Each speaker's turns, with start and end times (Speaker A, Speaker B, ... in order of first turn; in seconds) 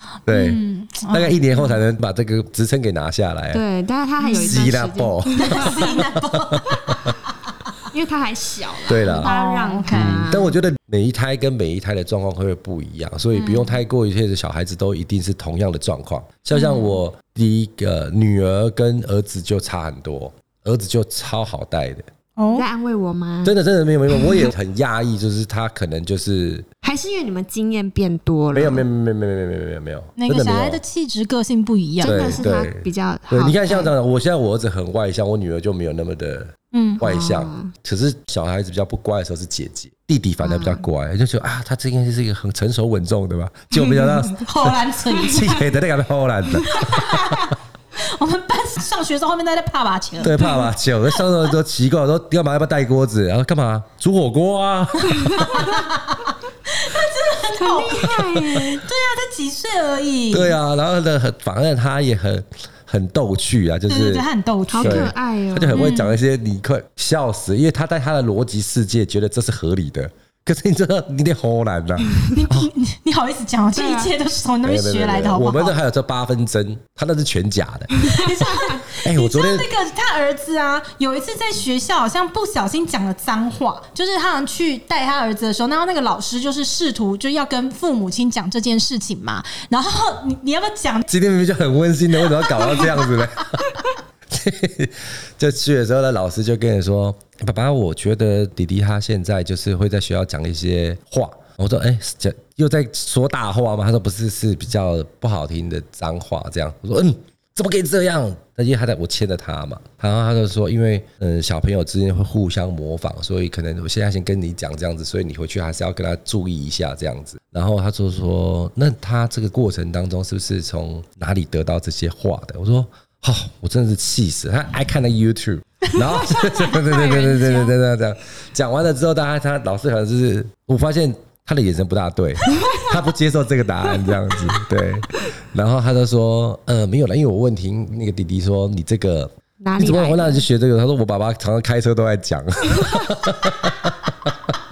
Speaker A: 0.3-3.6, 4.3-7.0, 8.9-9.3, 9.9-22.1, 23.4-26.7, 28.5-30.8, 32.0-47.5, 50.2-55.7, 60.3-64.2, 64.8-72.7, 74.6-77.9, 79.0-79.7, 91.1-144.6
Speaker B: 0.3-1.8, 4.2-4.7, 5.3-7.1, 9.0-10.2, 13.3-13.7, 16.6-16.8, 22.4-22.6, 30.2-32.4, 36.7-37.0, 43.7-45.6, 46.6-50.7, 55.4-60.6, 63.9-65.1, 65.7-66.2, 72.3-75.8, 78.0-91.1, 92.4-92.9, 126.3-127.7
Speaker C: 3.5-5.9, 7.9-10.6, 22.5-23.6, 26.8-28.9, 32.0-33.9, 37.0-37.7, 40.4-40.8, 55.1-55.8, 57.6-58.8, 64.7-65.9, 73.7-74.1, 78.1-78.8, 132.6-132.8, 139.6-140.4